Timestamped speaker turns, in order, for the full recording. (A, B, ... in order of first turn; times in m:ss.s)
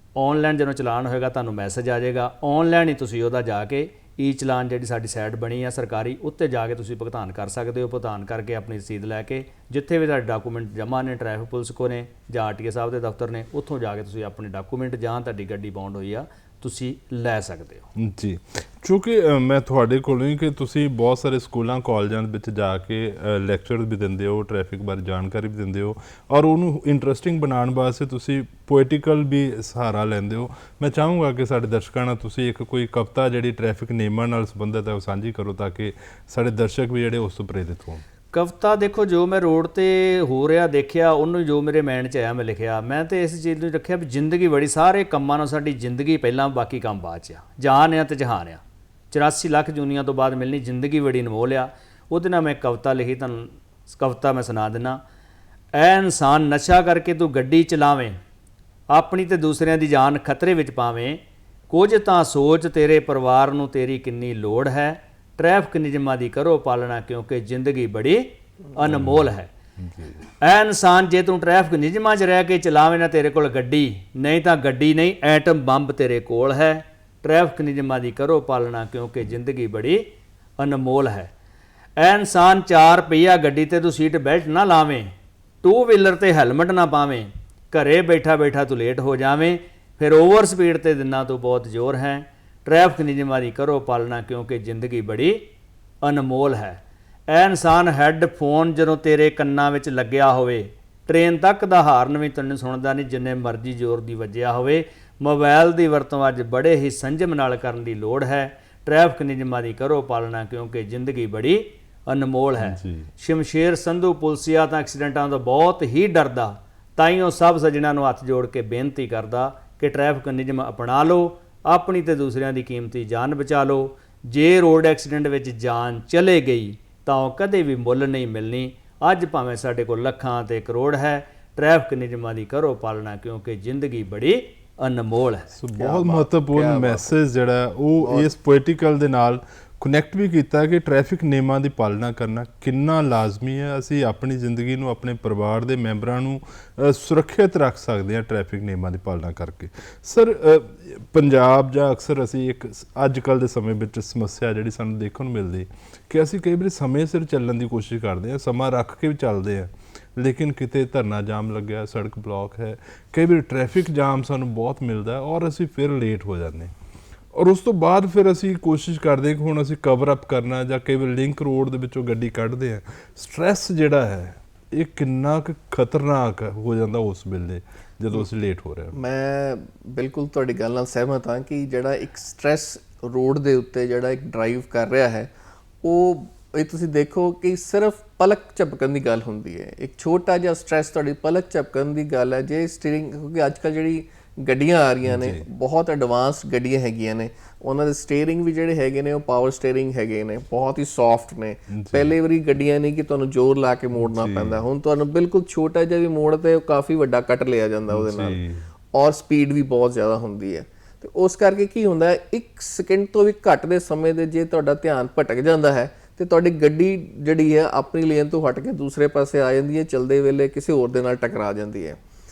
0:00.2-0:17.9 A
0:17.9-0:38.0 B
0:38.3-0:55.0 A
0:55.7-0:58.2 A
0:58.9-1:09.5 A
1:08.8-1:10.2 B
1:10.4-1:21.3 A
1:22.0-1:35.5 A
1:36.0-2:15.5 A
1:52.6-1:53.1 B
2:15.5-2:46.7 B
2:15.8-2:17.1 C
2:18.0-2:18.3 C
2:47.3-2:59.0 B
2:58.9-3:28.4 C
3:15.0-3:15.4 B
3:21.7-3:22.1 B
3:24.0-3:24.6 B
3:27.9-3:28.6 B
3:28.9-3:42.0 C